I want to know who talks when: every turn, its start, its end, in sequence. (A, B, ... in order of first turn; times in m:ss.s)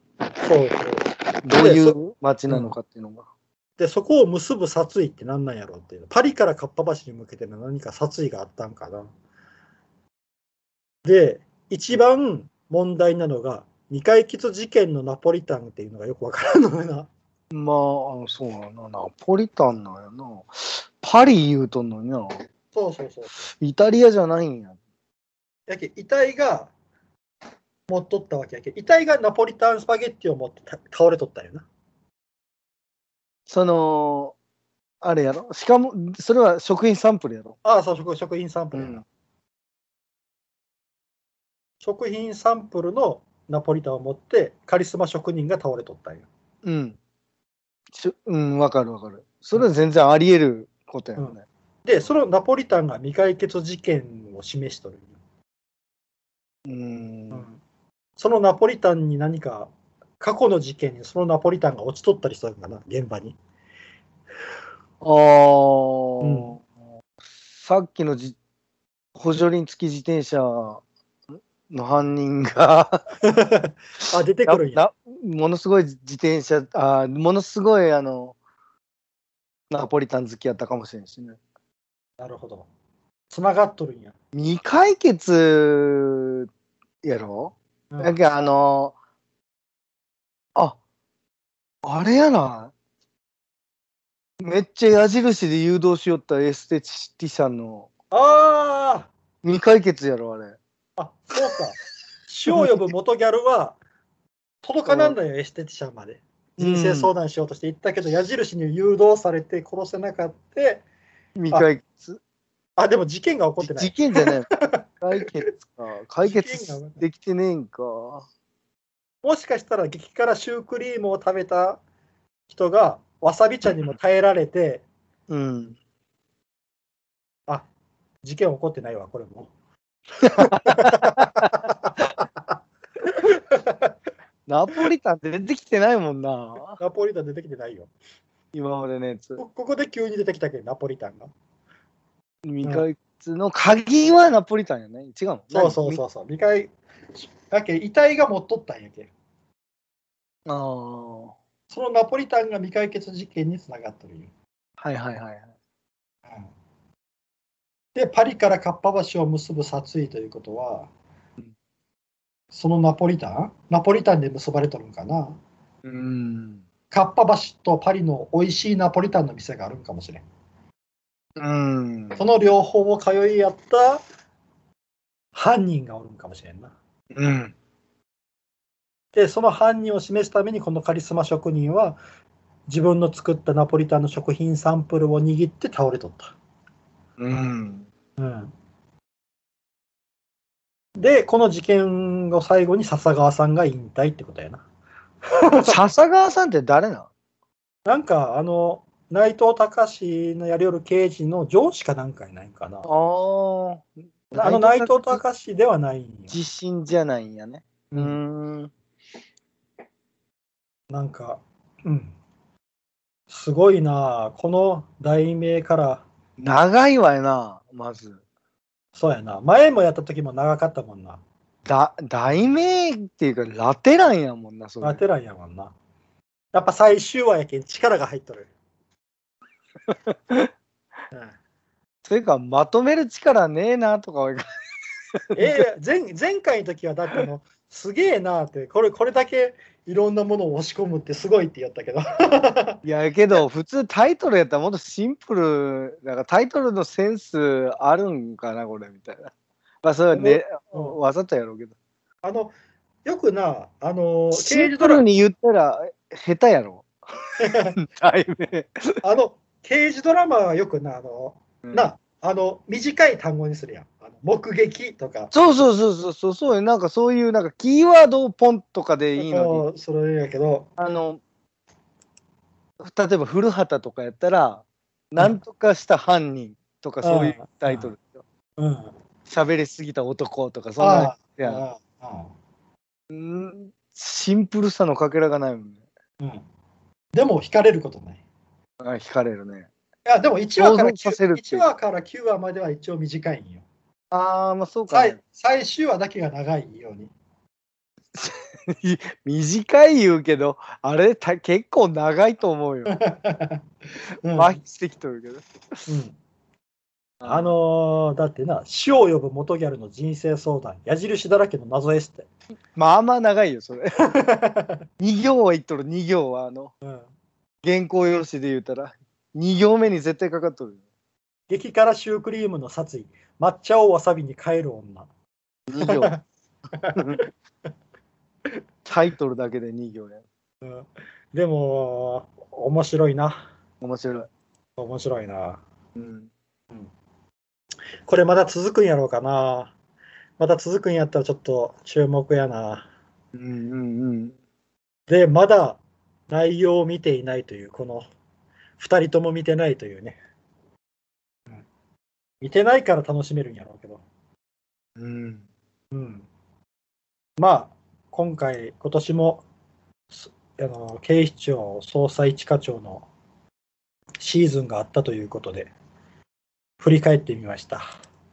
0:00.4-0:02.0 A
0:01.4-0:03.3 B
0:03.8-0:09.1 A
0:11.0-0:17.1 A
0:17.5-0:22.4 B
0:22.7-0:23.4 A
0:23.4-0:24.8 B
0:25.7-0:26.7 A
0:27.9-0:31.6 A
0:33.5-0:34.4 B
0:35.0-0:37.6 B
0:37.6-0:39.0 A
0:38.7-0:39.0 B
0:41.8-0:46.3 A
0:46.6-0:47.0 B
0:47.9-0:51.4 B
0:51.2-0:55.1 A
0:56.6-0:57.5 B
0:57.3-0:57.6 A
0:58.2-1:03.4 A
1:05.0-1:06.6 B
1:06.2-1:06.6 A
1:07.6-1:08.4 B
1:09.2-1:10.8 B
1:11.3-1:13.0 B
1:13.2-1:14.8 A
1:14.5-1:18.4 B
1:19.7-1:21.4 B
1:22.2-1:22.7 A
1:23.3-1:24.1 A
1:24.3-1:26.5 B
1:27.0-1:29.0 B
1:27.9-1:28.2 A
1:31.8-1:32.7 B
1:34.4-1:37.9 B
1:38.1-1:39.1 A
1:39.4-1:40.6 B
1:41.0-1:43.8 A
1:42.5-1:42.8 B
1:44.6-1:50.8 A
1:44.9-1:45.2 B
1:46.6-1:47.1 B
1:51.4-1:52.2 B
1:52.8-1:54.8 A
1:53.6-1:58.3 B
1:56.2-1:57.0 A
1:59.2-2:01.8 A
2:02.5-2:04.8 A
2:05.3-2:05.8 B
2:08.2-2:09.5 A
2:10.2-2:11.6 B
2:10.3-2:13.9 A
2:14.5-2:16.8 B
2:16.8-2:17.9 A
2:18.5-2:19.4 B
2:19.4-2:21.3 A
2:22.4-2:26.0 B
2:25.5-2:29.1 A
2:30.5-2:31.4 B
2:31.7-2:34.3 A
2:34.8-2:35.5 B
2:36.3-2:36.5 A
2:38.0-2:40.9 A
2:42.5-2:45.4 A
2:45.8-2:46.6 B
2:46.9-2:50.2 A
2:51.4-2:52.2 B
2:52.2-2:54.0 A
2:55.3-2:56.7 A
2:57.1-2:57.6 B
2:59.1-3:02.0 A
3:02.7-3:06.3 A
3:07.2-3:07.9 B
3:08.2-3:08.5 A
3:11.0-3:14.6 A
3:15.3-3:15.8 A
3:15.6-3:17.1 B
3:17.9-3:22.9 A
3:22.9-3:25.2 B
3:24.4-3:26.4 A
3:26.3-3:28.7 B
3:27.9-3:28.2 A
3:30.9-3:32.1 A
3:33.3-3:36.0 A
3:36.4-3:38.2 B
3:39.0-3:41.2 A
3:41.7-3:45.0 B
3:44.8-3:45.7 A
3:46.5-3:48.5 A
3:49.9-3:50.5 B
3:52.1-3:54.5 B
3:55.3-3:55.6 B
3:55.4-4:02.8 A
4:02.8-4:09.3 B
4:09.8-4:11.8 B
4:10.1-4:11.0 A
4:12.2-4:12.5 A
4:13.0-4:15.0 A
4:14.3-4:19.0 B
4:17.4-4:17.8 A
4:19.0-4:25.3 A
4:21.6-4:21.9 B
4:25.3-4:29.6 B
4:29.2-4:30.7 A
4:30.8-4:31.2 B
4:32.8-4:38.2 B
4:37.0-4:37.9 A
4:38.6-4:38.9 A
4:39.3-4:41.6 B
4:40.8-4:42.3 A
4:43.1-4:45.8 B
4:47.1-4:48.2 A
4:48.8-4:49.7 B
4:50.0-4:53.6 A
4:50.6-4:51.6 B
4:54.1-4:55.2 B
4:54.9-4:57.1 A
4:58.2-5:03.0 B
5:02.9-5:03.6 A
5:04.2-5:04.6 A
5:04.3-5:05.9 B
5:05.9-5:06.2 A
5:07.2-5:07.5 B
5:07.2-5:12.3 A
5:12.8-5:14.0 B
5:14.1-5:14.8 A
5:15.0-5:16.7 B
5:17.6-5:20.8 B
5:21.5-5:25.1 A
5:25.7-5:26.2 B
5:25.8-5:26.2 A
5:26.7-5:27.2 A
5:26.9-5:27.2 B
5:28.8-5:30.2 B
5:30.6-5:33.5 A
5:33.8-5:34.3 B
5:34.8-5:35.6 A
5:36.0-5:36.3 B
5:38.1-5:39.7 A
5:40.4-5:42.9 A
5:43.3-5:44.4 B
5:45.1-5:48.1 A
5:48.8-5:50.2 A
5:52.4-5:54.0 A
5:55.0-5:55.4 B
5:55.9-5:56.3 A
5:57.4-5:59.4 A
6:00.1-6:03.1 A
6:04.2-6:05.7 A
6:06.8-6:07.9 A